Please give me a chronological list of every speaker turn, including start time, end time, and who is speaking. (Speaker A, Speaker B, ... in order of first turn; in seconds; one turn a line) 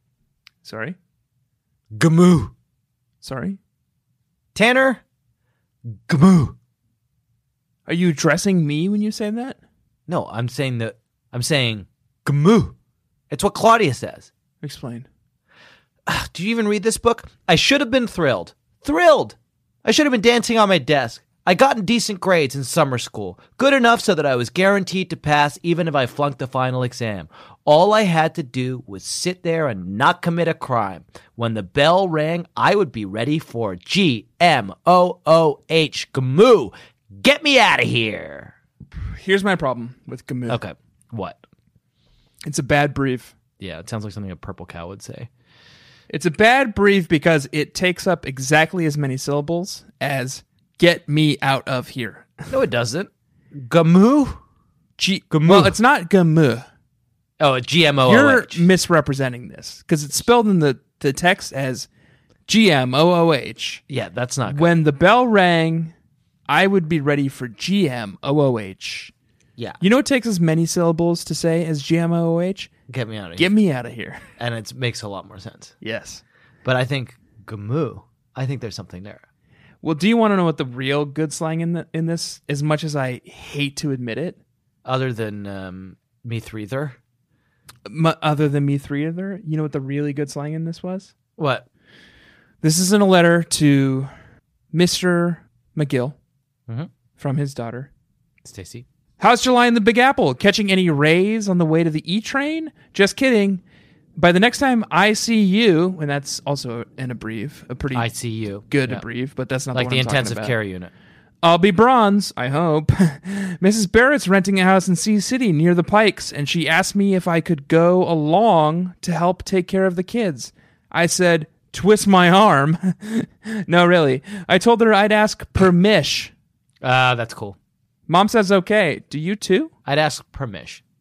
Speaker A: 0.6-1.0
Speaker B: 1.9-2.5
Speaker A: 3.2-3.6
Speaker B: 4.5-5.0
Speaker B: 5.9-6.6
Speaker A: 7.9-9.6
Speaker B: 10.1-12.8
Speaker B: 13.3-14.3
Speaker A: 14.6-15.1
Speaker B: 16.1-38.5
Speaker A: 39.1-40.6
Speaker B: 40.5-41.4
Speaker A: 42.5-43.4
Speaker B: 43.6-45.3
Speaker A: 46.1-52.3
Speaker B: 52.5-54.4
Speaker A: 55.0-56.7
Speaker B: 55.3-55.8
Speaker B: 57.4-58.7
Speaker A: 58.0-61.9
Speaker A: 62.5-63.8
Speaker B: 63.9-64.7
Speaker A: 64.5-65.9
Speaker A: 66.5-69.1
Speaker A: 69.8-72.7
Speaker B: 72.9-73.5
Speaker A: 73.4-74.2
Speaker B: 74.4-75.7
Speaker A: 75.8-76.2
Speaker B: 76.6-79.2
Speaker A: 79.8-84.4
Speaker B: 84.8-87.0
Speaker A: 87.9-91.1
Speaker B: 91.4-91.7
Speaker A: 92.6-94.1
Speaker A: 94.7-96.2
Speaker A: 97.2-97.9
Speaker B: 98.4-98.9
Speaker A: 99.2-103.6
Speaker A: 104.2-108.1
Speaker B: 107.9-109.1
Speaker A: 108.7-110.6
Speaker B: 109.7-110.9
Speaker A: 111.4-126.3
Speaker B: 126.8-127.6
Speaker A: 128.1-129.7
Speaker B: 129.9-130.8